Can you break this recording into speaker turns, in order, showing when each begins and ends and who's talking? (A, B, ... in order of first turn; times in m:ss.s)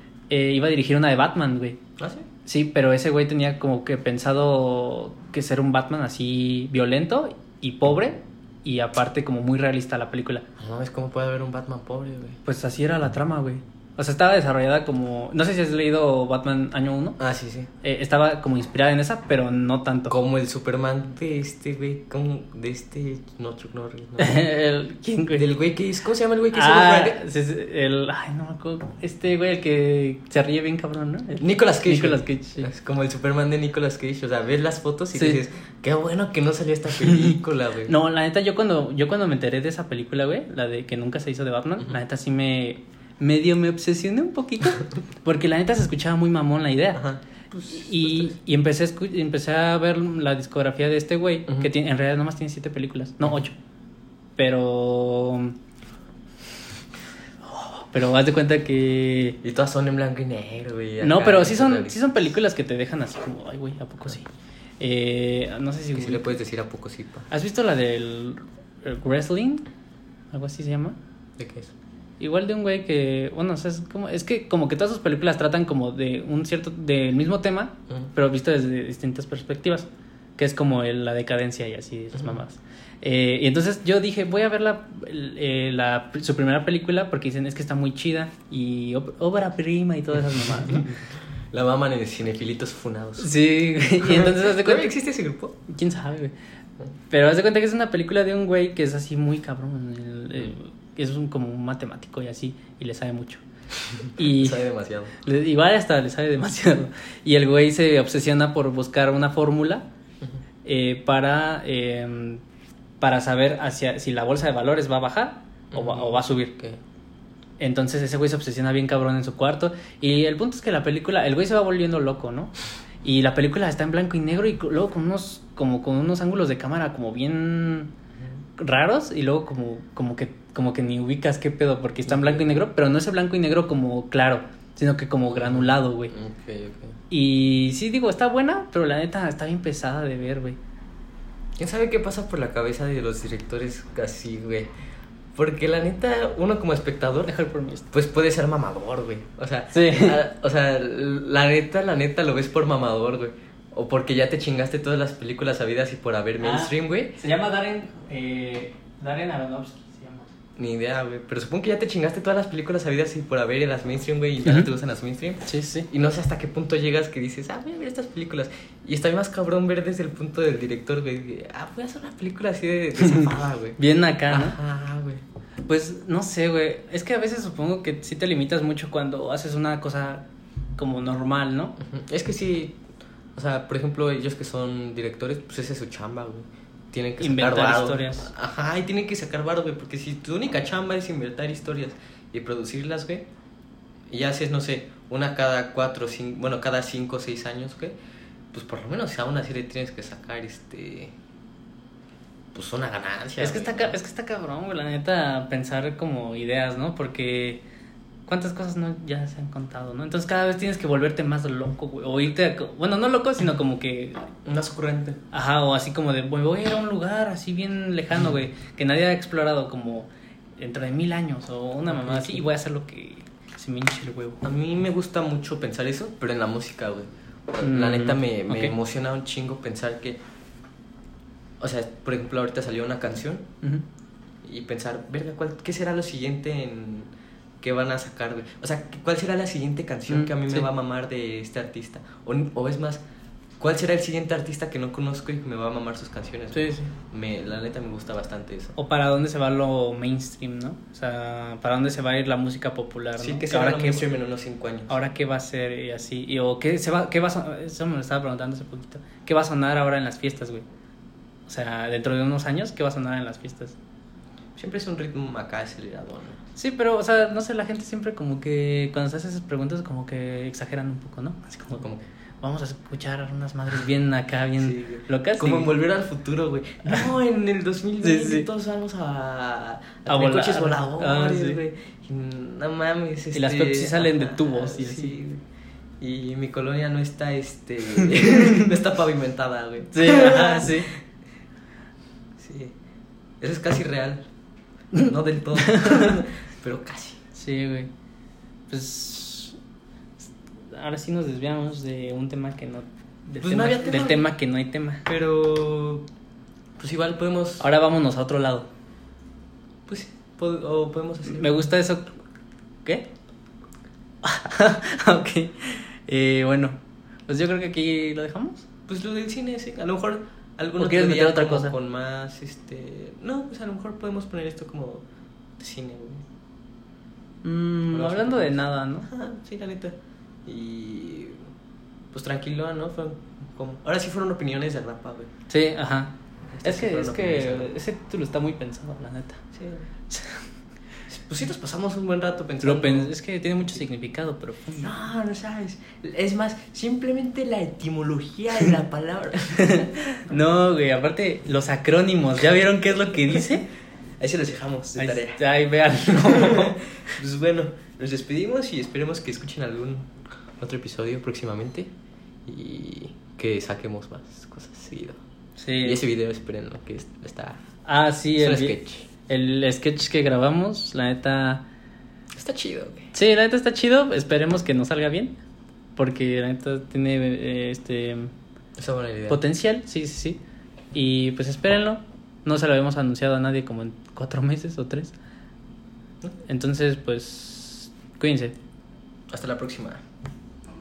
0:00.3-0:01.8 A
0:02.0-0:02.2 B
0:02.4-0:10.4 A
0:10.6-0:12.4 B
0:12.4-0:17.2 A
0:17.2-0:17.7 B
0:17.8-0:20.2 A
0:20.1-0:24.4 B
0:24.2-0:25.5 A
0:25.3-0:27.2 B
0:26.5-0:32.7 A
0:31.4-0:37.9 B
0:35.1-0:35.4 A
0:37.0-0:47.0 A
0:46.9-0:48.4 B
0:47.7-0:53.6 A
0:51.5-0:51.7 B
0:54.4-0:55.5 A
0:57.4-0:59.4 A
0:59.4-1:02.0 B
1:01.0-1:04.3 A
1:04.8-1:06.4 A
1:05.9-1:07.3 B
1:07.3-1:09.6 A
1:10.3-1:11.0 A
1:11.4-1:11.7 B
1:12.2-1:31.0 A
1:30.7-1:30.9 B
1:31.5-1:33.3 B
1:33.2-1:34.9 A
1:34.0-1:35.6 B
1:35.7-1:36.3 A
1:37.1-1:43.4 A
1:44.1-1:44.7 A
1:44.2-1:45.1 B
1:45.2-1:49.9 A
1:50.6-1:52.4 A
1:53.0-1:56.5 A
1:55.7-1:56.8 B
1:57.6-2:02.5 A
2:03.0-2:07.9 A
2:08.6-2:16.1 A
2:12.1-2:12.6 B
2:15.3-2:17.0 B
2:17.1-2:20.6 A
2:21.6-2:24.7 B
2:25.4-2:27.3 B
2:27.2-2:27.9 A
2:27.9-2:37.2 B
2:29.7-2:30.2 A
2:36.4-2:40.3 A
2:40.6-2:53.8 B
2:45.4-2:45.9 A
2:53.0-2:54.6 A
2:54.3-2:55.2 B
2:55.7-3:00.2 A
3:00.8-3:01.7 A
3:01.8-3:02.8 B
3:03.4-3:13.2 B
3:07.2-3:08.3 A
3:14.1-3:18.0 B
3:18.5-3:21.1 B
3:22.5-3:24.0 B
3:23.4-3:27.6 A
3:28.3-3:34.3 A
3:34.4-3:35.2 B
3:35.3-3:44.4 A
3:41.9-3:42.4 B
3:44.4-3:50.2 B
3:47.6-3:48.7 A
3:51.6-3:53.5 B
3:54.4-4:03.0 B
4:00.1-4:00.7 A
4:03.6-4:08.7 B
4:06.5-4:06.9 A
4:08.8-4:14.1 A
4:13.2-4:15.1 B
4:14.9-4:20.6 A
4:21.5-4:23.8 A
4:24.6-4:26.4 B
4:26.6-4:31.9 A
4:32.4-4:35.7 A
4:34.6-4:45.4 B
4:38.0-4:38.4 A
4:40.1-4:41.6 A
4:43.3-4:45.1 A
4:46.0-4:51.0 B
4:48.0-4:48.7 A
4:49.9-4:50.9 A
4:52.4-4:52.8 B
4:53.4-4:54.3 B
4:54.9-4:56.1 A
4:55.0-4:57.2 B
4:57.3-4:57.9 A
4:58.7-4:59.6 A
5:00.7-5:05.0 A
5:03.4-5:04.2 B
5:05.0-5:06.0 B
5:06.8-5:07.6 B
5:07.6-5:08.7 A
5:09.9-5:11.6 B
5:11.3-5:12.2 A
5:14.2-5:18.6 A
5:18.9-5:25.0 B
5:20.8-5:21.7 A
5:25.6-5:26.2 B
5:27.4-5:29.1 A
5:27.9-5:29.9 B
5:30.4-5:31.5 B
5:32.1-5:35.3 B
5:35.5-5:39.4 A
5:36.5-5:37.7 B
5:39.5-5:39.9 B
5:40.1-5:40.5 A
5:41.1-5:43.1 B
5:42.6-5:45.0 A
5:44.8-5:49.9 B
5:49.6-5:53.7 A
5:54.2-5:55.4 B
5:55.0-5:56.8 A
5:56.1-6:01.9 B
6:02.4-6:05.2 B
6:05.6-6:06.0 A
6:05.8-6:07.6 B
6:07.9-6:11.6 A
6:08.4-6:09.1 B
6:12.3-6:13.1 B
6:13.1-6:15.4 A
6:16.0-6:18.3 A
6:18.8-6:19.4 B
6:19.3-6:20.4 A
6:20.9-6:25.1 A
6:26.5-6:28.6 A
6:29.3-6:30.0 B